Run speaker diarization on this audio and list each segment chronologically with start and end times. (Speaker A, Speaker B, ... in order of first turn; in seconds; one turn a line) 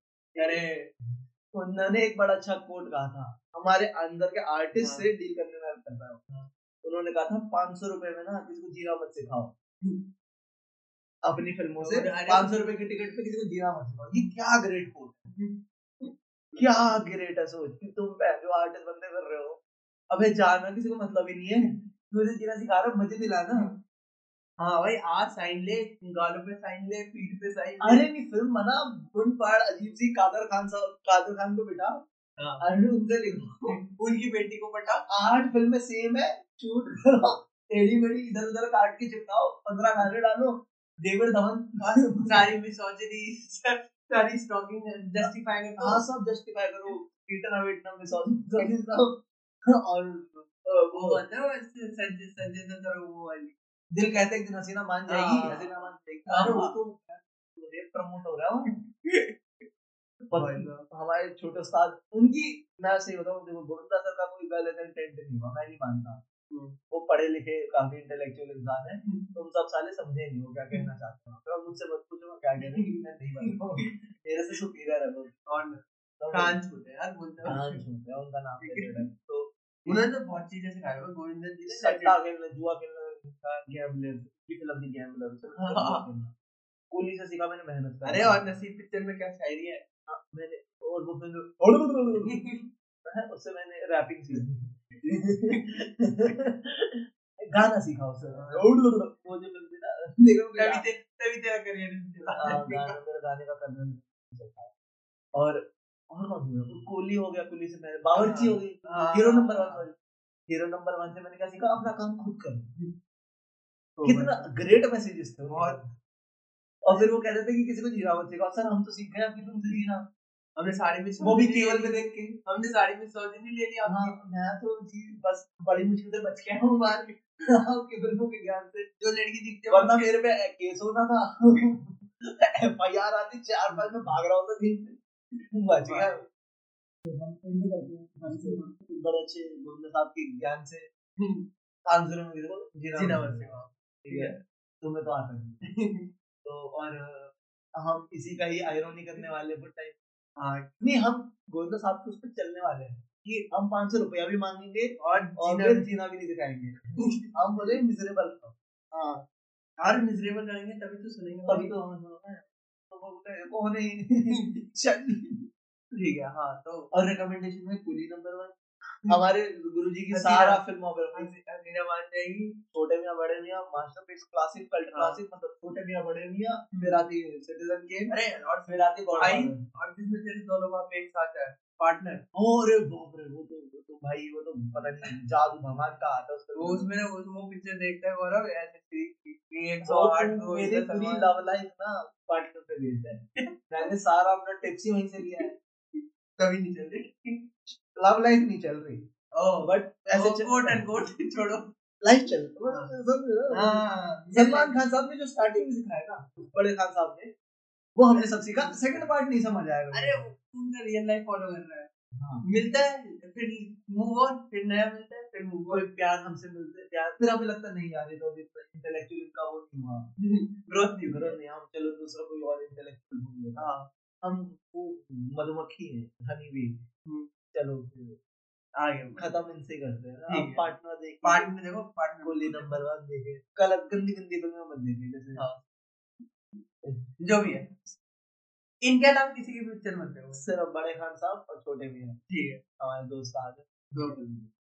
Speaker A: 0.4-0.9
Speaker B: 1.5-9.5
Speaker A: 4.8-5.1
Speaker B: 11.2-15.3
Speaker A: 11.8-12.6
Speaker A: 15.3-16.9
Speaker B: 16.6-23.7
Speaker A: 24.6-28.0
Speaker B: 27.8-32.0
Speaker A: 32.4-32.6
Speaker B: 32.6-33.8
Speaker A: 33.7-35.1
Speaker B: 35.1-42.4
Speaker A: 41.8-46.0
Speaker B: 45.2-51.2
Speaker A: 50.9-53.5
Speaker B: 53.9-58.8
Speaker A: 55.1-56.7
Speaker A: 58.7-59.6
Speaker B: 60.3-66.2
Speaker A: 60.3-60.9
Speaker A: 66.5-66.8
Speaker B: 66.9-75.4
Speaker A: 69.0-69.3
Speaker A: 72.6-74.0
Speaker A: 75.5-77.8
Speaker B: 76.2-76.6
Speaker B: 77.5-80.1
Speaker A: 78.6-79.0
Speaker A: 79.9-82.2
Speaker B: 81.7-86.3
Speaker A: 85.6-86.0
Speaker B: 86.9-88.4
Speaker A: 88.0-89.8
Speaker B: 90.1-92.4
Speaker A: 92.2-92.6
Speaker B: 93.1-100.8
Speaker A: 95.0-95.8
Speaker A: 98.3-98.7
Speaker A: 100.6-103.0
Speaker B: 102.3-104.7
Speaker B: 105.3-110.0
Speaker A: 108.1-109.9
Speaker B: 110.5-112.7
Speaker A: 114.0-114.5
Speaker B: 114.0-115.9
Speaker A: 115.4-115.8
Speaker B: 116.8-120.1
Speaker A: 120.6-124.1
Speaker B: 121.2-122.4
Speaker B: 123.8-128.9
Speaker A: 129.0-130.1
Speaker B: 129.7-135.0
Speaker A: 133.7-134.1
Speaker B: 135.5-136.2
Speaker A: 135.8-136.2
Speaker B: 137.0-140.9
Speaker A: 138.3-138.7
Speaker A: 141.2-141.5
Speaker B: 141.9-143.5
Speaker A: 142.9-144.4
Speaker B: 144.1-145.6
Speaker A: 145.7-146.1
Speaker B: 146.4-150.0
Speaker A: 150.4-150.8
Speaker B: 150.8-159.2
Speaker A: 153.2-153.5
Speaker A: 155.0-155.9
Speaker A: 157.0-157.8
Speaker A: 159.8-161.8
Speaker B: 161.5-165.5
Speaker A: 164.3-164.6
Speaker A: 165.9-166.9
Speaker B: 166.9-168.5
Speaker B: 169.1-171.3
Speaker A: 170.1-170.6
Speaker A: 171.1-172.6
Speaker B: 172.7-178.1
Speaker A: 174.9-175.2
Speaker A: 176.7-177.0
Speaker A: 178.1-182.2
Speaker B: 178.7-179.6
Speaker B: 182.3-186.9
Speaker A: 186.6-191.3
Speaker B: 189.8-195.5
Speaker A: 193.4-193.9
Speaker A: 195.4-197.5
Speaker B: 197.7-199.1
Speaker A: 199.3-201.7
Speaker B: 199.6-200.8
Speaker B: 202.0-207.3
Speaker A: 203.5-204.8
Speaker B: 208.0-210.2
Speaker A: 208.1-209.0
Speaker A: 209.9-211.9
Speaker B: 212.2-212.5
Speaker A: 212.4-215.9
Speaker B: 215.7-220.1
Speaker A: 220.2-221.3
Speaker B: 221.0-223.7
Speaker A: 223.6-223.9
Speaker B: 224.2-226.8
Speaker B: 227.5-228.2
Speaker A: 228.8-229.2
Speaker B: 229.2-231.5
Speaker A: 230.3-230.7
Speaker A: 231.2-232.8
Speaker B: 232.2-235.5
Speaker A: 235.4-235.6
Speaker B: 236.8-237.6
Speaker A: 237.2-238.0
Speaker A: 238.8-240.4
Speaker B: 240.3-242.2
Speaker A: 242.3-242.6
Speaker B: 242.8-244.5
Speaker A: 243.9-244.2